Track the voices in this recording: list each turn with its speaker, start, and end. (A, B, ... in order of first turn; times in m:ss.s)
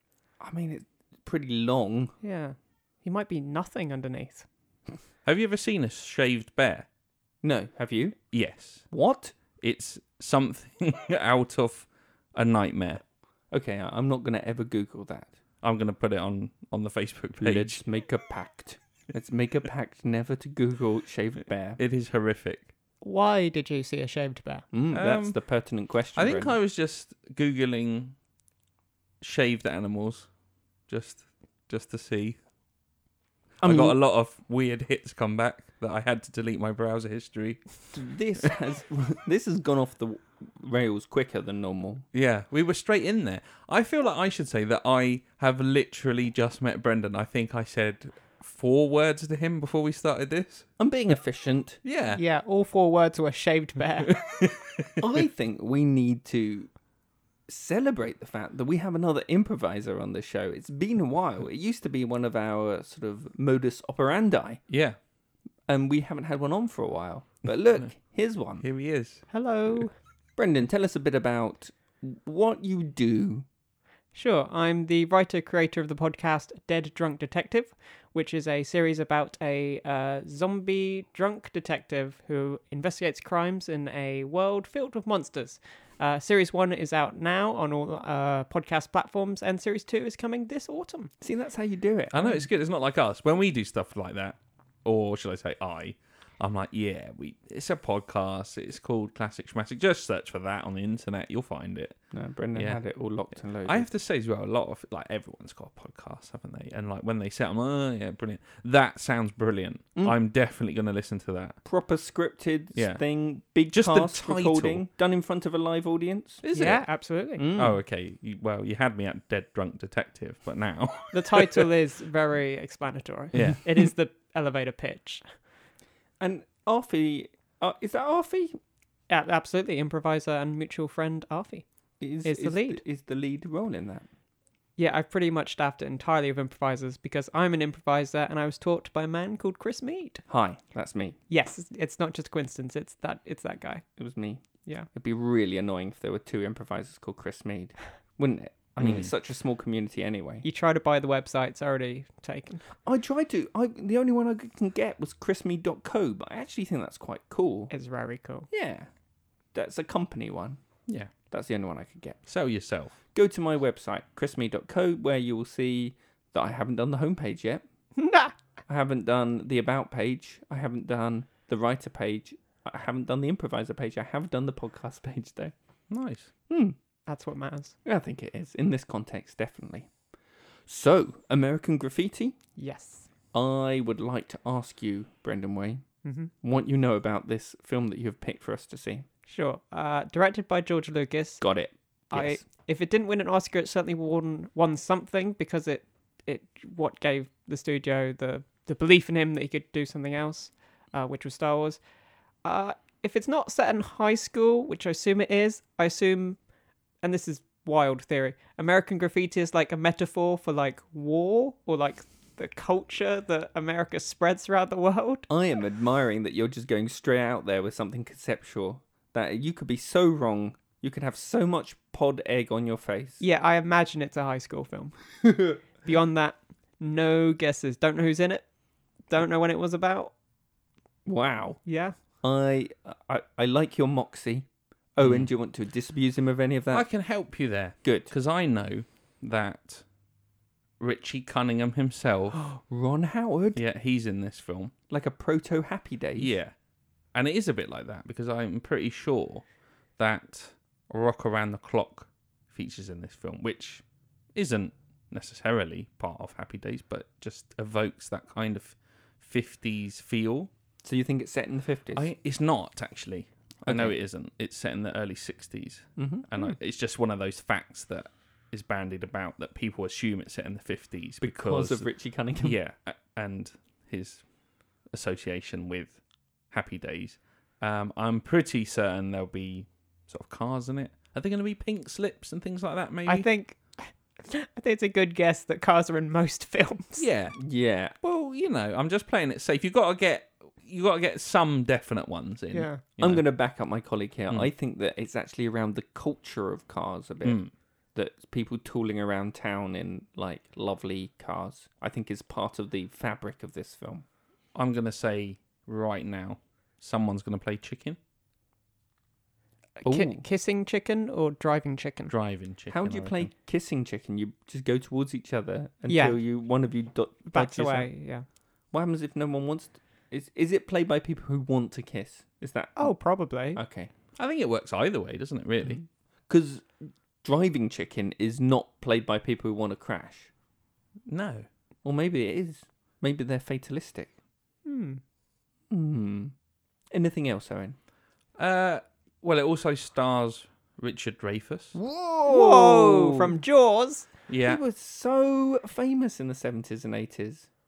0:00.4-0:02.1 A
0:02.2-0:04.4 B
0:05.2-0:06.9 C
0:07.4-0:08.2 A
0:08.3-0:08.8 C
0:08.9-0:09.3 A
0:09.6-0:13.0 C
0:13.5-0:15.3 A
0:15.6-0:17.8 C
0:17.4-0:21.8 A
0:21.8-0:22.7 C
0:23.0-0:24.6 B
0:24.7-0:26.6 A
0:24.9-0:25.4 C
0:26.1-0:28.2 C
0:29.2-0:30.3 C
0:30.9-0:32.4 C
0:33.6-0:37.7 C
0:33.6-0:34.0 A
0:37.9-0:42.0 A
0:42.1-0:50.7 C
0:50.8-0:51.8 A
0:51.8-0:52.2 C
0:52.2-0:54.2 B
0:54.1-0:54.9 C
0:55.0-0:56.7 A
0:57.5-1:04.6 A
1:04.7-1:05.0 C
1:05.7-1:08.6 A
1:08.6-1:09.2 C
1:09.3-1:09.9 B
1:10.4-1:13.4 A
1:14.1-1:31.1 B
1:31.2-1:32.4 A
1:32.1-1:42.0 C
1:42.1-1:43.9 A
1:43.6-1:51.6 C
1:51.6-1:56.4 A
1:52.7-1:53.0 C
1:53.7-1:54.8 C
1:56.4-1:56.9 C
1:56.5-1:57.4 B
1:57.4-1:57.8 A
1:57.5-2:01.7 C
2:01.1-2:05.3 B
2:03.3-2:03.8 C
2:06.2-2:08.6 A
2:09.1-2:11.6 B
2:12.0-2:14.1 A
2:12.2-2:12.8 B
2:14.8-2:20.2 B
2:20.3-2:21.2 A
2:21.3-2:23.8 B
2:24.0-2:24.4 A
2:24.9-2:30.4 A
2:28.8-2:29.1 C
2:30.4-2:32.6 B
2:32.8-2:37.7 A
2:37.7-2:38.5 B
2:38.5-2:38.9 A
2:39.5-2:40.6 A
2:40.9-2:41.1 C
2:41.3-2:42.2 A
2:42.2-2:42.9 C
2:43.1-2:47.6 A
2:48.0-2:48.3 B
2:48.7-2:55.5 A
2:55.9-2:56.3 C
2:56.5-2:56.8 A
2:57.1-2:57.7 B
2:57.8-2:59.9 A
3:00.7-3:02.4 A
3:02.6-3:03.1 B
3:03.3-3:05.8 A
3:06.0-3:06.3 B
3:06.4-3:09.0 A
3:09.3-3:11.4 B
3:11.4-3:12.4 A
3:12.1-3:21.8 B
3:22.4-3:26.4 B
3:27.0-3:35.3 B
3:35.3-3:43.2 A
3:43.2-3:48.4 B
3:49.1-3:50.1 B
3:51.0-3:51.6 A
3:51.6-3:52.0 B
3:52.2-3:56.9 A
3:55.0-3:55.3 C
3:56.7-3:59.8 C
3:57.8-3:58.1 A
4:00.8-4:02.4 C
4:02.3-4:03.6 A
4:03.5-4:04.7 C
4:04.9-4:06.4 A
4:06.2-4:06.5 C
4:07.1-4:09.4 C
4:10.0-4:13.8 C
4:14.3-4:20.5 C
4:20.8-4:22.1 A
4:21.9-4:34.2 C
4:23.6-4:23.9 A
4:26.0-4:26.3 A
4:31.2-4:32.6 A
4:34.9-4:36.0 C
4:36.5-4:43.3 C
4:43.1-4:47.1 B
4:47.0-4:47.4 C
4:47.4-4:47.9 A
4:48.0-4:53.2 C
4:52.5-4:52.8 B
4:53.0-4:57.4 A
4:57.2-4:57.5 C
4:57.9-5:04.0 A
5:04.5-5:08.0 C
5:09.8-5:12.1 B
5:09.8-5:10.2 A
5:12.1-5:13.3 C
5:12.7-5:17.9 A
5:15.9-5:16.2 B
5:17.3-5:18.2 B
5:18.7-5:22.9 A
5:22.8-5:23.6 B
5:23.5-5:23.9 A
5:24.2-5:25.8 C
5:26.3-5:26.7 A
5:27.2-5:30.3 A
5:31.1-5:31.5 C
5:31.8-5:34.1 A
5:34.6-5:35.0 B
5:35.7-5:36.3 A
5:36.9-5:37.8 A
5:38.4-5:41.8 C
5:41.8-5:43.3 A
5:42.2-5:44.1 B
5:44.3-5:44.6 C
5:44.4-5:47.5 A